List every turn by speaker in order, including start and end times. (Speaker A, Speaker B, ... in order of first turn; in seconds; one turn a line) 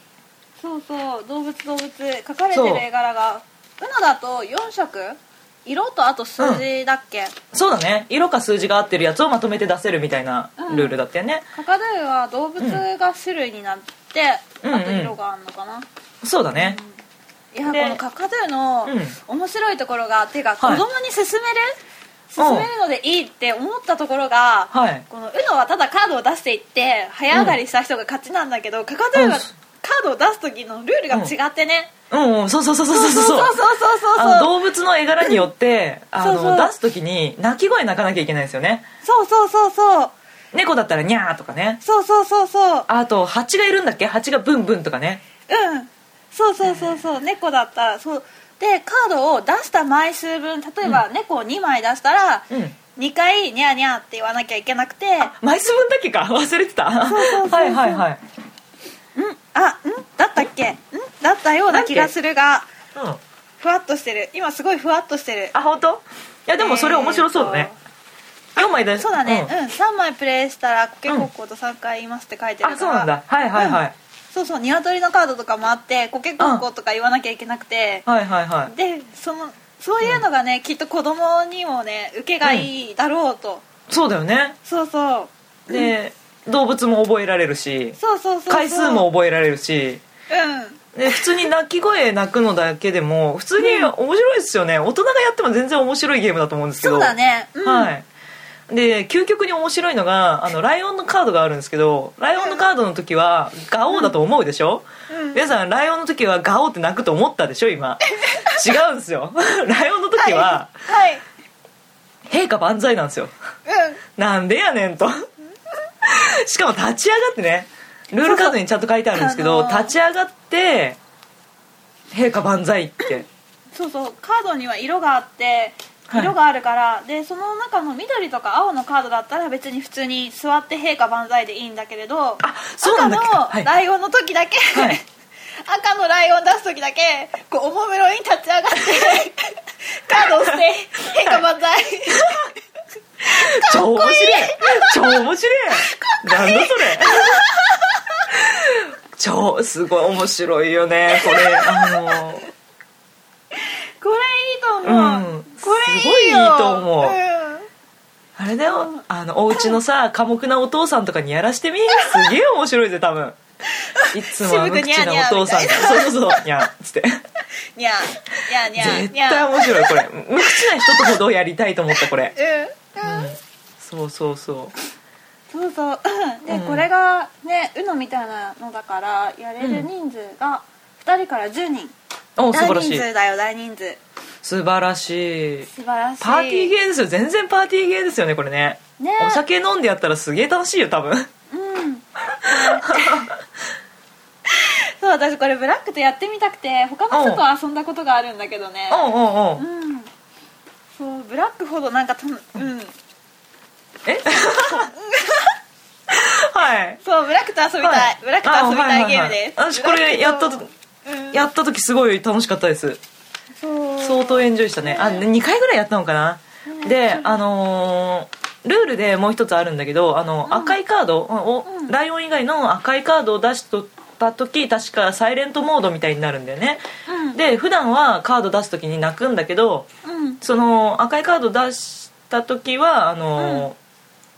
Speaker A: 0.6-7.4
Speaker B: 2.5-2.8
Speaker B: 6.4-6.6
Speaker B: 7.5-11.4
Speaker A: 10.6-11.0
Speaker A: 11.5-15.9
Speaker B: 14.6-15.1
Speaker B: 16.2-16.8
Speaker A: 16.5-17.0
Speaker A: 17.5-21.8
Speaker B: 17.6-18.0
Speaker B: 18.9-19.1
Speaker B: 20.6-20.9
Speaker A: 22.3-31.9
Speaker B: 22.4-22.7
Speaker B: 24.7-25.0
Speaker B: 27.3-27.6
Speaker B: 29.1-29.5
Speaker B: 32.1-33.6
Speaker A: 32.9-34.5
Speaker B: 34.1-38.9
Speaker A: 36.2-36.7
Speaker A: 39.0-40.1
Speaker B: 40.5-41.8
Speaker A: 41.8-42.9
Speaker B: 42.9-45.2
Speaker A: 45.5-55.3
Speaker B: 46.6-47.0
Speaker B: 52.5-52.8
Speaker B: 55.3-58.2
Speaker A: 57.1-58.0
Speaker A: 59.1-62.7
Speaker B: 61.7-62.1
Speaker B: 62.9-63.2
Speaker A: 63.6-65.5
Speaker B: 65.5-67.7
Speaker A: 66.6-67.7
Speaker B: 68.6-69.5
Speaker A: 68.6-73.8
Speaker B: 72.6-73.9
Speaker A: 74.3-78.1
Speaker B: 76.4-76.6
Speaker B: 78.1-78.7
Speaker A: 78.7-83.7
Speaker B: 83.9-84.6
Speaker A: 84.6-85.9
Speaker B: 85.7-88.0
Speaker A: 88.0-89.1
Speaker B: 88.5-90.0
Speaker A: 90.3-91.4
Speaker B: 90.9-97.1
Speaker A: 93.6-93.9
Speaker A: 96.8-97.9
Speaker B: 97.6-98.0
Speaker B: 98.7-110.7
Speaker A: 102.4-102.6
Speaker A: 105.1-105.4
Speaker A: 108.1-108.6
Speaker A: 110.1-111.2
Speaker B: 112.3-113.3
Speaker A: 113.7-114.0
Speaker B: 114.2-115.3
Speaker B: 116.0-121.0
Speaker A: 118.2-118.6
Speaker A: 119.1-119.9
Speaker B: 122.1-123.3
Speaker A: 123.7-135.0
Speaker B: 126.1-126.3
Speaker B: 132.4-133.7
Speaker B: 134.7-135.0
Speaker A: 135.6-142.5
Speaker B: 142.1-142.4
Speaker A: 143.2-148.2
Speaker B: 143.2-147.4
Speaker B: 148.3-152.5
Speaker A: 151.1-152.2
Speaker A: 154.0-157.7
Speaker B: 154.8-157.2
Speaker B: 158.4-163.4
Speaker A: 158.7-159.0
Speaker A: 161.9-162.3
Speaker A: 163.7-166.4
Speaker B: 164.1-167.2
Speaker A: 167.8-171.2
Speaker B: 168.7-172.3
Speaker A: 172.3-173.3
Speaker B: 173.0-174.7
Speaker A: 175.5-181.9
Speaker B: 176.5-176.9
Speaker B: 179.6-179.9
Speaker B: 182.4-183.1
Speaker A: 182.5-184.0
Speaker B: 184.4-185.7
Speaker A: 185.7-186.7
Speaker B: 186.2-191.3
Speaker A: 189.0-189.4
Speaker A: 191.5-193.3
Speaker B: 192.4-193.3
Speaker A: 194.5-200.1
Speaker B: 197.1-197.4
Speaker B: 198.9-199.6
Speaker A: 201.0-202.9
Speaker B: 204.0-204.9
Speaker A: 204.3-205.6
Speaker B: 206.1-207.0
Speaker A: 207.0-211.4
Speaker B: 207.8-210.7
Speaker B: 211.3-213.0
Speaker A: 213.6-215.3
Speaker B: 214.0-229.9
Speaker A: 216.7-217.4
Speaker A: 220.4-220.8
Speaker A: 221.6-221.9
Speaker A: 227.1-227.4
Speaker A: 230.0-230.4
Speaker B: 230.4-233.8
Speaker A: 233.4-233.7